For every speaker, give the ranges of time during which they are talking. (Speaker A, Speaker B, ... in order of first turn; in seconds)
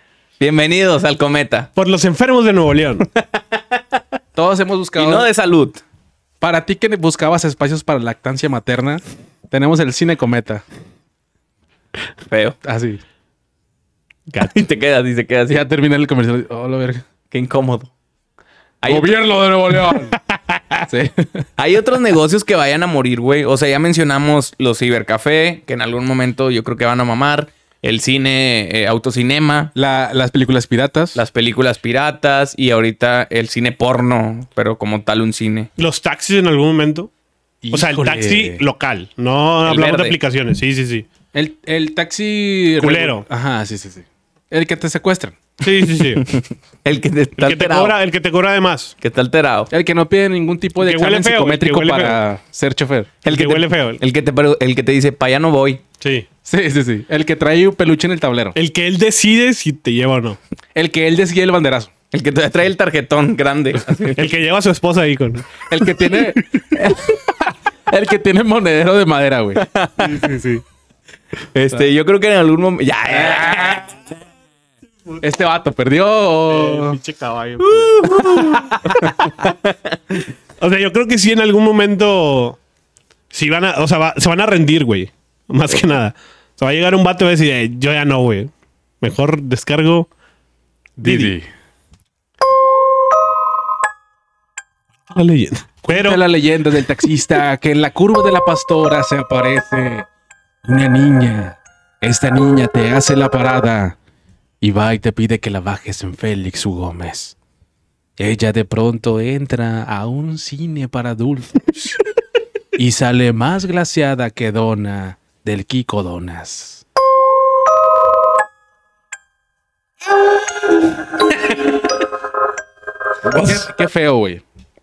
Speaker A: 0.4-1.7, 5.0-5.8, 12.3-12.6, 14.4-15.6, 17.3-17.9, 18.8-19.1, 21.6-29.7, 31.1-35.7, 39.6-40.2, 46.0-47.9, 49.0-49.7, 53.2-55.8, 62.1-64.3, 69.6-70.2, 71.5-73.9, 77.8-79.7
Speaker B: 1.8-3.1, 14.3-14.6, 19.9-20.8, 35.8-37.1, 37.7-41.1, 42.8-43.3, 45.6-46.2, 47.4-49.0, 50.8-52.2, 53.3-54.0, 56.0-56.3, 58.6-60.4, 64.1-65.7, 70.0-70.6, 76.5-79.3, 80.6-82.6, 83.3-90.1, 91.0-91.4, 95.1-96.2
Speaker C: 4.3-5.3, 6.4-10.6, 12.6-13.0, 15.5-17.0, 18.9-20.2, 20.9-21.5, 29.8-31.2, 37.6-38.6, 41.3-45.4, 49.7-53.1, 56.5-58.6, 60.8-61.9, 65.7-69.7, 73.1-73.8, 75.2-77.0, 91.0-91.5, 95.8-100.1, 100.7-104.0, 104.6-107.3, 108.2-111.7, 112.8-116.8, 123.3-124.4